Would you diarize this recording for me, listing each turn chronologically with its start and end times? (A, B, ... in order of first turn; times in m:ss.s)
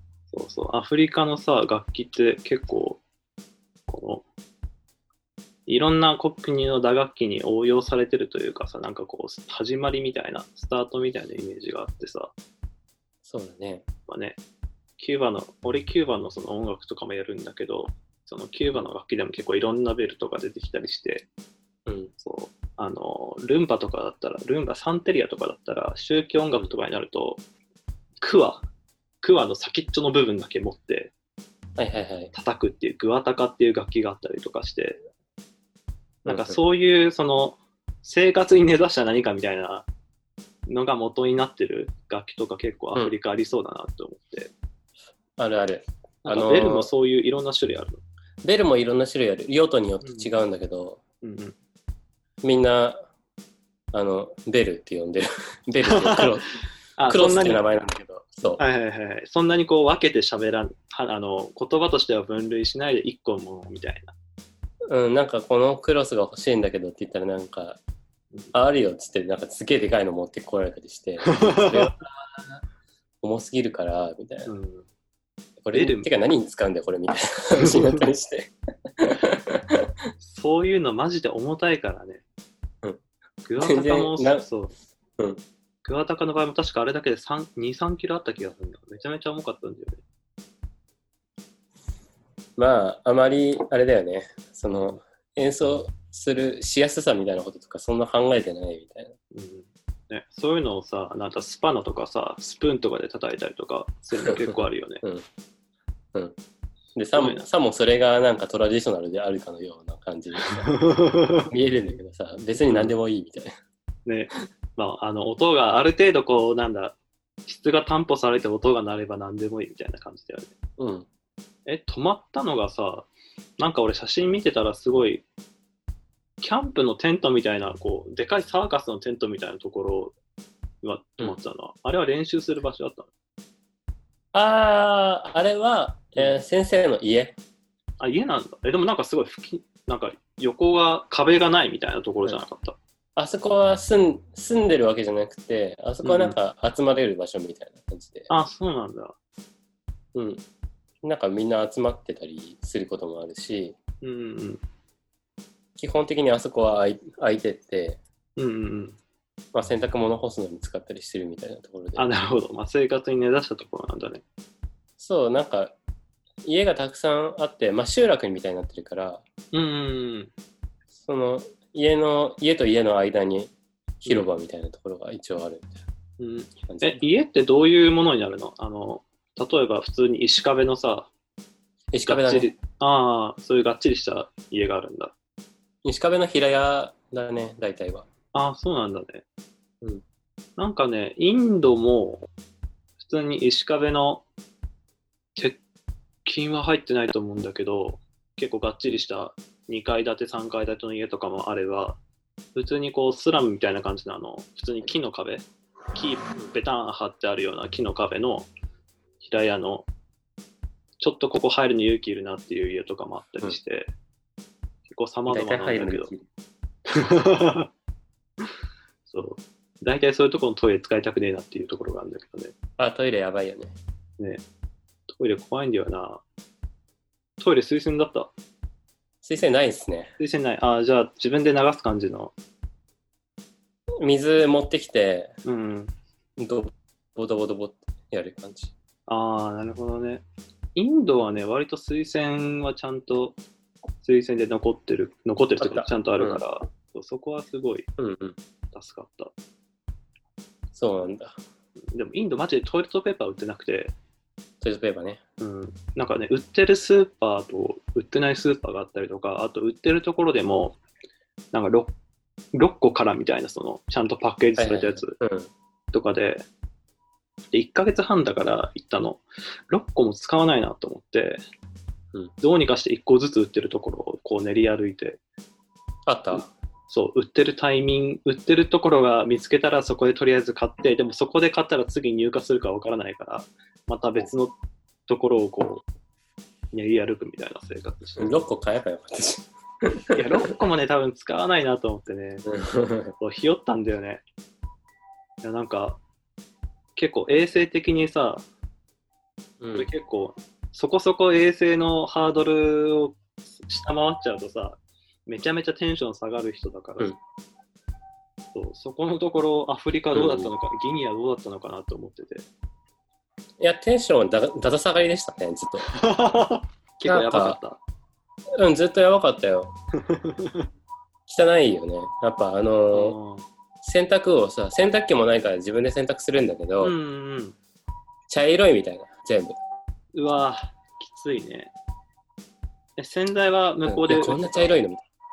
0:00.3-0:03.0 A
0:03.9-0:04.2 A
0:05.7-0:12.3 A
0:13.2-0:13.8 B
0:14.1-0:14.4 A
0:15.0-0:21.3 A
0:21.8-0:22.1 B
0:22.2-0:27.4 A
0:28.2-0:28.7 A
0:29.2-0:31.1 A
0:31.8-0:32.3 B
0:32.3-0:35.0 A
0:36.2-0:39.8 A
0:36.2-0:36.6 B
0:40.7-0:44.5 A
0:45.4-0:46.9 B
0:46.2-0:48.0 A
0:48.4-0:51.0 B
0:50.0-0:50.3 A
0:51.2-0:51.6 A
0:52.4-0:53.0 B
0:53.9-0:56.5 B
0:55.8-0:56.3 A
0:57.0-0:57.6 A
0:57.1-0:58.6 B
0:58.6-1:04.1 A
1:04.9-1:07.8 B
1:08.5-1:12.6 B
1:11.2-1:11.9 A
1:13.2-1:14.5 B
1:14.4-1:14.8 A
1:15.6-1:19.9 B
1:15.7-1:16.1 A
1:17.6-1:18.0 A
1:20.2-1:22.2 A
1:23.4-1:24.7 A
1:23.6-1:24.4 B
1:25.8-1:30.0 A
1:32.6-1:39.1 B
1:39.3-1:45.0 A
1:47.0-1:50.7 B
1:47.1-1:47.5 A
1:50.6-1:51.5 A
1:51.4-1:53.6 B
1:52.7-1:52.9 A
1:54.0-2:00.5 A
2:00.8-2:01.0 B
2:01.6-2:03.1 A
2:03.6-2:05.2 A
2:06.4-2:10.1 A
2:10.8-2:13.1 A
2:14.3-2:17.4 B
2:18.0-2:22.8 A
2:23.2-2:28.3 B
2:26.0-2:26.4 A
2:28.3-2:29.2 A
2:30.1-2:30.4 B
2:31.0-2:33.8 B
2:34.0-2:34.6 A
2:35.8-2:38.0 B
2:38.4-2:39.0 A
2:39.5-2:42.0 B
2:42.0-2:44.2 A
2:45.0-2:45.7 B
2:46.4-2:49.2 B
2:49.5-2:50.3 A
2:51.0-2:55.8 B
2:56.2-3:01.1 A
2:56.7-2:57.0 B
3:01.9-3:02.5 B
3:02.0-3:05.1 A
3:05.8-3:08.1 B
3:08.3-3:09.2 A
3:10.6-3:12.3 A
3:13.0-3:14.2 A
3:16.2-3:22.0 A
3:22.5-3:28.5 A
3:29.2-3:29.9 A
3:31.0-3:33.9 A
3:34.9-3:36.1 A
3:35.3-3:36.2 B
3:36.9-3:37.7 A
3:39.1-3:42.5 A
3:42.8-3:43.7 B
3:45.1-3:46.2 A
3:47.4-3:48.3 A
3:49.2-3:50.1 B
3:50.2-3:52.3 A
3:54.0-3:55.3 B
3:55.4-3:55.9 A
3:56.4-3:58.7 B
3:59.1-4:00.2 A
4:00.7-4:03.4 A
4:04.0-4:07.9 A
4:05.6-4:06.4 B
4:08.0-4:08.4 B
4:08.7-4:09.3 A
4:10.7-4:11.4 B
4:11.9-4:13.9 A
4:14.6-4:15.2 B
4:15.4-4:20.8 A
4:21.5-4:21.9 A
4:22.5-4:25.2 A
4:24.6-4:25.5 B
4:25.9-4:26.4 A
4:27.5-4:31.4 A
4:32.4-4:35.2 A
4:36.1-4:36.5 B
4:36.4-4:44.6 A
4:45.1-4:45.8 A
4:46.7-4:48.3 A
4:48.2-4:50.2 B
4:50.1-4:52.5 A
4:52.4-4:53.1 B
4:53.2-4:54.2 A
4:55.4-4:56.0 A
4:57.0-4:58.4 A
4:59.6-4:59.9 B
4:59.7-5:07.1 A
5:08.5-5:12.4 A
5:10.1-5:10.5 B
5:13.6-5:15.9 B
5:15.9-5:17.8 A
5:17.0-5:17.6 B
5:18.5-5:19.7 B
5:20.0-5:20.6 A
5:21.3-5:23.2 B
5:22.9-5:23.4 A
5:23.8-5:26.9 B
5:26.8-5:27.6 A
5:28.3-5:29.6 B
5:30.1-5:31.7 A
5:33.0-5:34.8 A
5:33.8-5:35.0 B